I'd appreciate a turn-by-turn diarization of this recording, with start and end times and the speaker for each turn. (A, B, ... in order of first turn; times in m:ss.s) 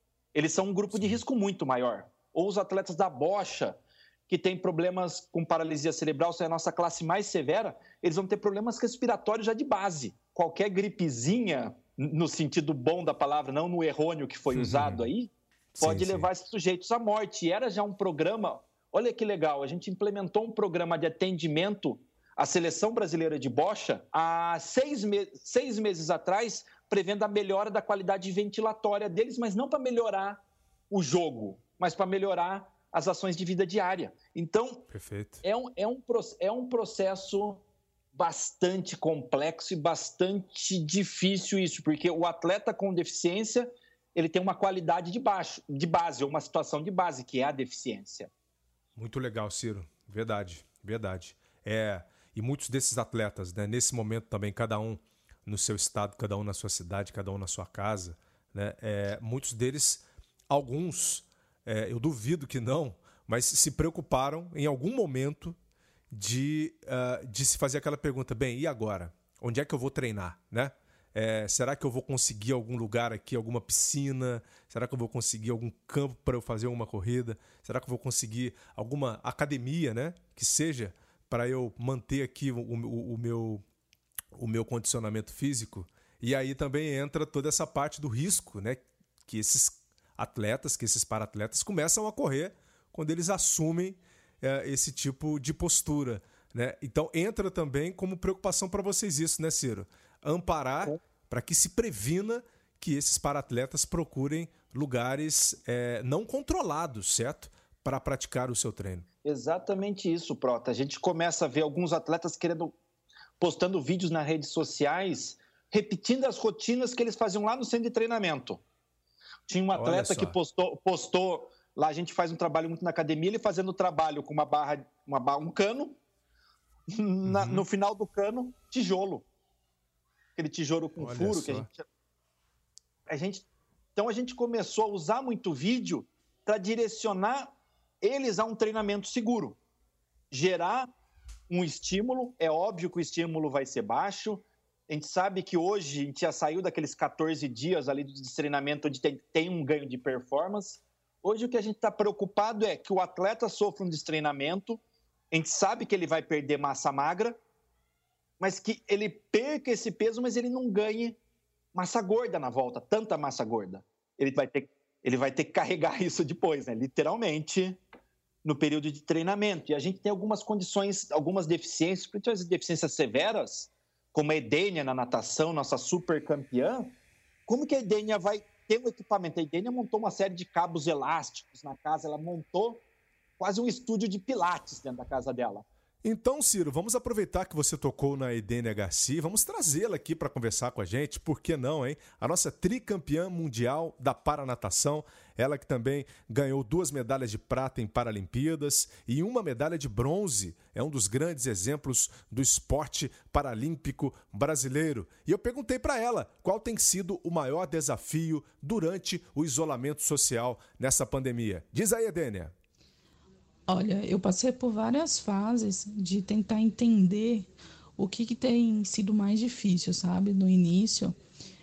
0:00.3-0:34.8 A
0:00.9-0:01.2 B
0:14.5-0:15.1 B
0:15.7-0:16.3 B
0:34.9-0:35.4 B
0:35.4-0:48.3 A
0:49.0-1:05.6 B
1:06.1-1:23.6 B
1:24.3-1:49.1 B
1:49.2-1:52.8 A
1:53.4-1:58.6 A
1:59.5-2:06.0 A
1:59.7-2:00.4 B
2:06.9-2:09.2 A
2:07.2-2:07.6 B
2:10.4-2:11.8 A
2:11.0-2:11.7 B
2:13.1-2:19.6 A
2:20.3-2:20.9 A
2:21.5-2:34.8 A
2:35.3-2:37.4 A
2:38.4-2:41.2 A
2:41.7-2:47.8 A
2:48.4-2:56.9 A
2:57.5-3:02.8 A
3:03.4-3:05.6 A
3:06.0-3:32.5 B
3:33.7-3:41.2 C